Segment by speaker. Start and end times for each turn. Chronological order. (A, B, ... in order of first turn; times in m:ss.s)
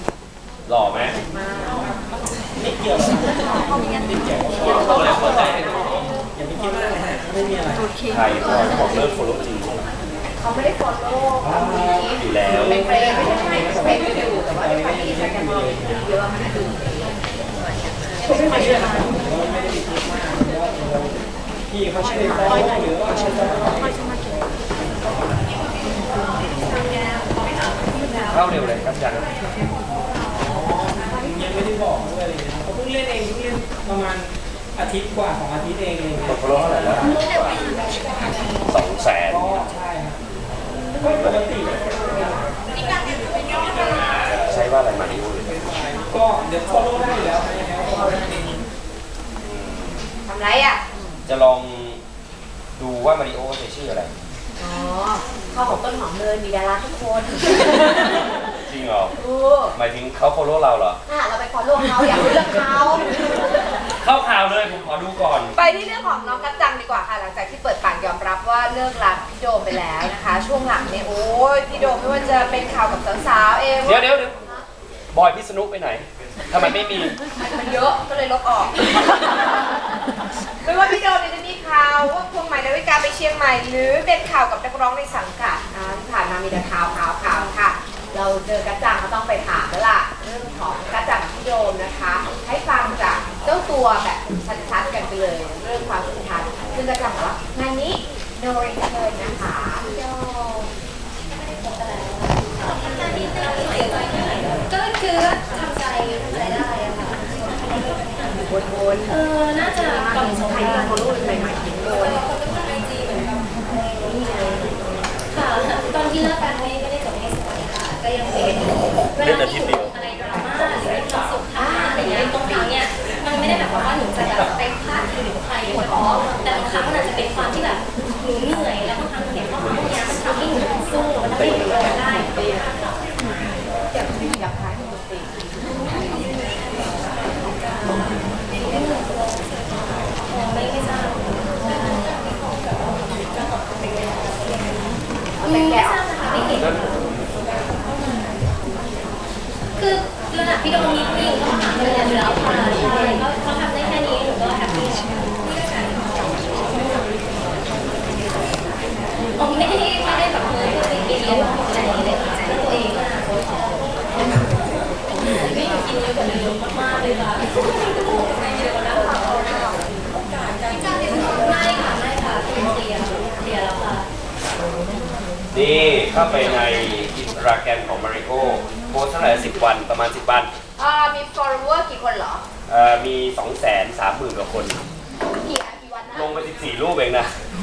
0:00.7-0:01.2 A
0:01.3-0:01.9 B
0:02.6-0:03.3 C
0:04.2-0:05.7 C
0:04.7-0:05.8 B
0:04.9-0:05.5 A
0:06.3-0:07.8 C
0:08.1-0:09.8 A
0:08.4-0:08.9 B
0:10.4-0:17.2 B
0:11.4-0:12.0 C
0:12.1-0:12.9 A
0:12.8-0:15.8 C
0:18.3-0:21.2 C
0:21.7-0:23.9 C
0:28.3-0:29.3 A
0:30.4-0:36.4 C
0:36.3-0:37.2 A
0:38.7-0:39.7 A
0:39.3-0:40.2 C
0:41.0-0:42.5 C
0:43.6-0:45.6 A
0:45.5-0:48.4 C
0:49.4-0:50.1 A
0:50.3-0:51.1 B
0:51.3-0:52.0 A
0:52.8-0:54.1 A
0:54.6-0:58.3 B
0:58.7-0:59.2 A
0:59.2-0:59.7 B
0:59.7-1:01.0 A
1:01.1-1:03.3 B
1:04.0-1:05.6 A
1:05.6-1:14.6 B
1:13.8-1:14.3 A
1:15.1-1:17.2 A
1:17.4-1:19.3 B
1:20.6-1:40.2 B
1:41.5-1:48.3 D
1:48.3-1:52.2 B
1:49.1-1:53.4 D
1:54.0-1:54.7 D
1:55.3-2:13.0 D
1:59.2-2:01.4 A
2:01.6-2:02.7 B
2:04.2-2:04.6 A
2:11.3-2:12.0 A
2:12.0-2:12.6 B
2:13.9-2:16.0 B
2:18.6-2:19.0 D
2:20.3-2:22.2 D
2:23.6-2:24.7 D
2:25.4-2:26.5 B
2:25.4-2:26.8 D
2:26.4-2:27.0 A
2:29.8-2:37.2 D
2:38.2-2:38.8 D
2:39.4-2:44.5 D
2:45.2-2:49.8 D
2:50.3-2:54.1 D
2:55.5-3:00.5 A
3:00.8-3:02.4 B
3:02.7-3:04.8 A
3:05.4-3:06.4 B
3:06.1-3:07.3 A